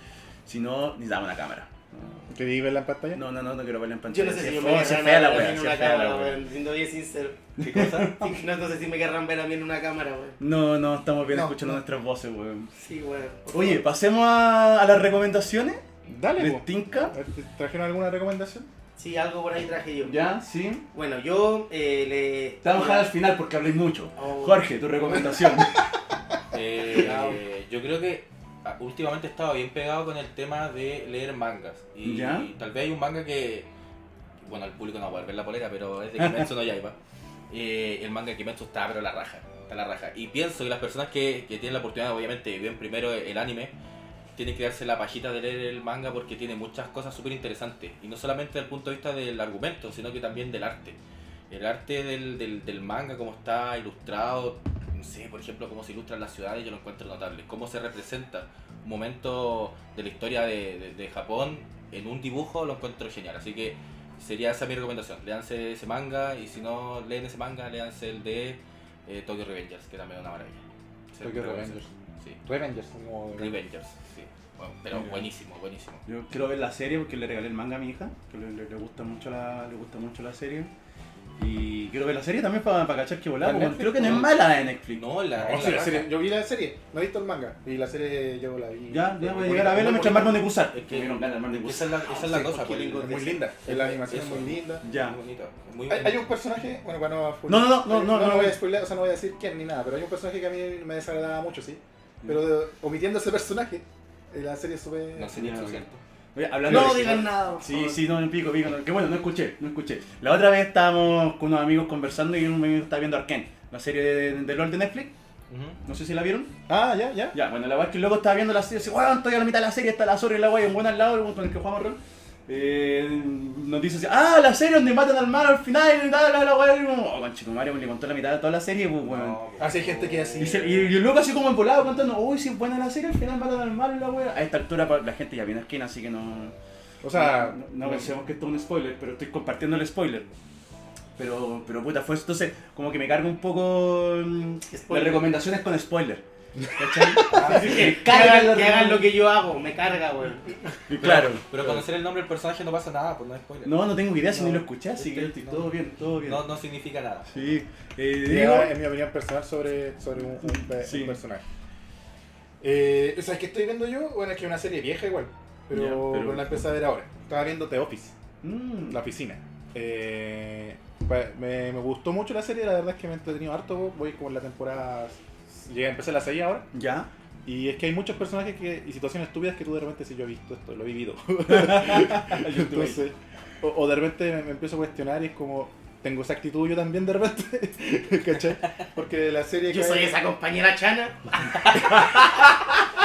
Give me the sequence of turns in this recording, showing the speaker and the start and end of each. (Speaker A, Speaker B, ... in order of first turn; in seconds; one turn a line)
Speaker A: 0.5-2.3
Speaker B: 2.3-3.2
Speaker A: 3.1-6.4
Speaker C: 4.1-10.4
Speaker D: 7.6-8.1
Speaker A: 7.6-8.3
Speaker A: 10.4-12.7
Speaker B: 11.3-11.8
Speaker C: 12.7-13.8
Speaker A: 13.5-15.8
Speaker B: 16.1-18.7
Speaker A: 16.4-17.1
Speaker C: 19.0-20.2
Speaker A: 20.0-20.9
Speaker C: 20.9-23.1
Speaker A: 22.6-25.8
Speaker C: 24.2-25.2
Speaker D: 26.5-33.7
Speaker C: 27.0-27.4
Speaker A: 32.0-32.5
Speaker D: 34.4-37.0
Speaker A: 36.2-36.5
Speaker D: 37.5-43.7
Speaker D: 44.4-51.0
Speaker D: 51.5-72.4
Speaker B: 71.2-71.9
Speaker B: 72.5-73.5
Speaker D: 73.4-76.0
Speaker A: 74.9-75.3
Speaker A: 76.1-80.7
Speaker A: 81.4-86.0
Speaker B: 83.4-84.3
Speaker D: 84.8-86.1
Speaker B: 85.4-90.4
Speaker A: 88.9-92.0
Speaker D: 89.5-96.2
Speaker C: 92.0-93.1
Speaker B: 92.2-94.8
Speaker A: 94.8-95.2
Speaker B: 95.9-105.4
Speaker A: 97.5-98.6
Speaker D: 105.1-106.0
Speaker A: 105.4-105.8
Speaker A: 106.3-115.1
Speaker C: 106.6-108.0
Speaker B: 106.7-107.1
Speaker D: 115.5-115.8
Speaker A: 115.8-116.5
Speaker B: 116.7-117.4
Speaker A: 117.3-129.4
Speaker D: 129.0-130.6
Speaker B: 129.6-130.9
Speaker A: 130.4-136.6
Speaker B: 137.0-138.1
Speaker A: 137.1-140.3
Speaker A: 141.2-146.2
Speaker C: 144.7-145.3
Speaker A: 146.8-149.1
Speaker B: 147.1-147.7
Speaker C: 147.3-150.7
Speaker D: 147.3-147.7
Speaker A: 150.9-151.5
Speaker B: 151.0-151.8
Speaker D: 151.4-153.7
Speaker A: 153.6-156.5
Speaker B: 154.3-154.6
Speaker D: 155.0-155.7
Speaker D: 156.2-157.5
Speaker A: 157.3-158.8
Speaker B: 158.2-161.4
Speaker A: 160.4-161.2
Speaker B: 162.6-168.2
Speaker A: 165.7-166.6
Speaker A: 168.4-169.0
Speaker B: 168.9-176.7
Speaker A: 176.7-177.1
Speaker B: 177.4-190.2
Speaker A: 181.5-183.0
Speaker C: 189.7-192.0